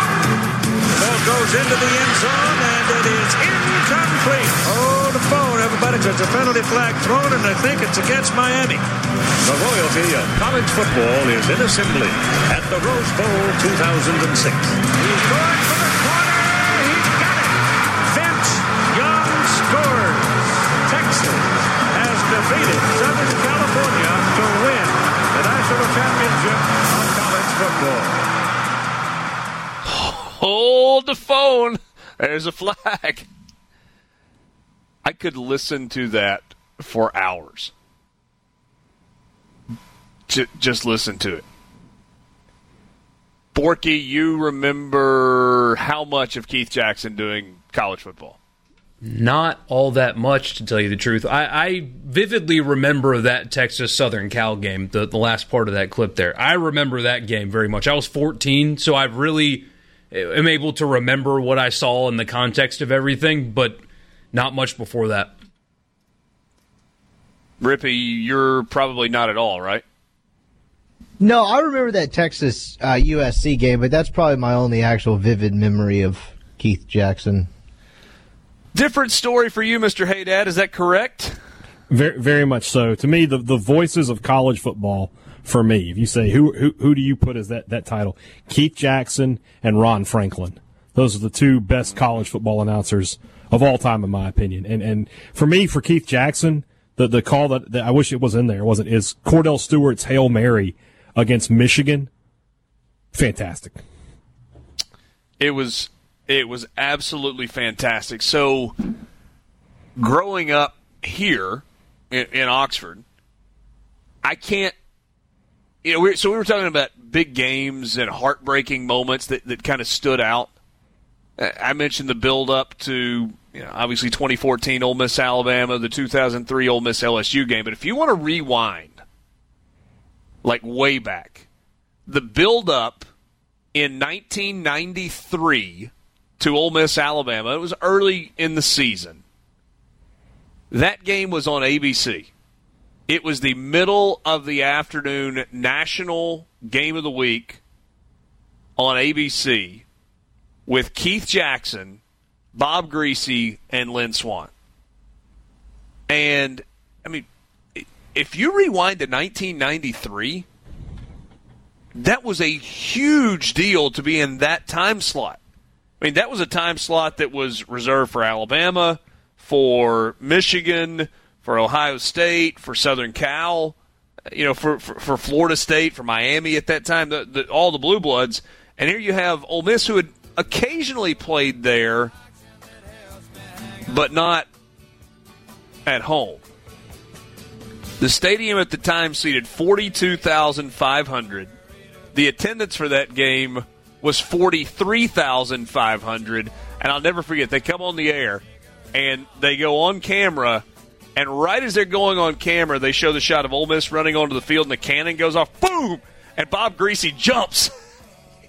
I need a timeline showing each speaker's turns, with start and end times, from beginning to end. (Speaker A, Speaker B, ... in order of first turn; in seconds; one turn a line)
Speaker A: 1.0-8.8
Speaker A: 9.4-17.5
Speaker A: 18.1-20.2
Speaker A: 20.9-28.1
Speaker B: 29.8-33.2
Speaker B: 35.0-37.7
Speaker B: 40.3-41.4
Speaker B: 43.5-48.4
Speaker C: 49.0-63.8
Speaker C: 64.3-65.3
Speaker B: 67.6-69.8
Speaker D: 71.2-77.5
Speaker B: 78.7-81.4
Speaker E: 81.9-102.1
Speaker E: 103.1-103.8
Speaker B: 105.4-108.8
Speaker B: 110.0-113.0
Speaker B: 114.2-114.7
Speaker B: 115.8-120.5
Speaker B: 121.4-129.0
Speaker B: 130.4-131.4
Speaker B: 132.1-133.1
Speaker B: 133.7-139.2
Speaker B: 140.7-142.3
Speaker B: 143.1-147.6
Speaker B: 148.8-149.8
Speaker B: 150.7-152.0
Speaker B: 152.5-154.5
Speaker B: 156.1-160.4
Speaker B: 161.9-165.4
Speaker B: 166.0-173.8
Speaker B: 174.3-182.1
Speaker B: 183.9-184.5
Speaker B: 185.8-186.4
Speaker B: 188.0-191.5
Speaker B: 192.1-198.4
Speaker B: 198.9-200.6
Speaker B: 201.2-207.7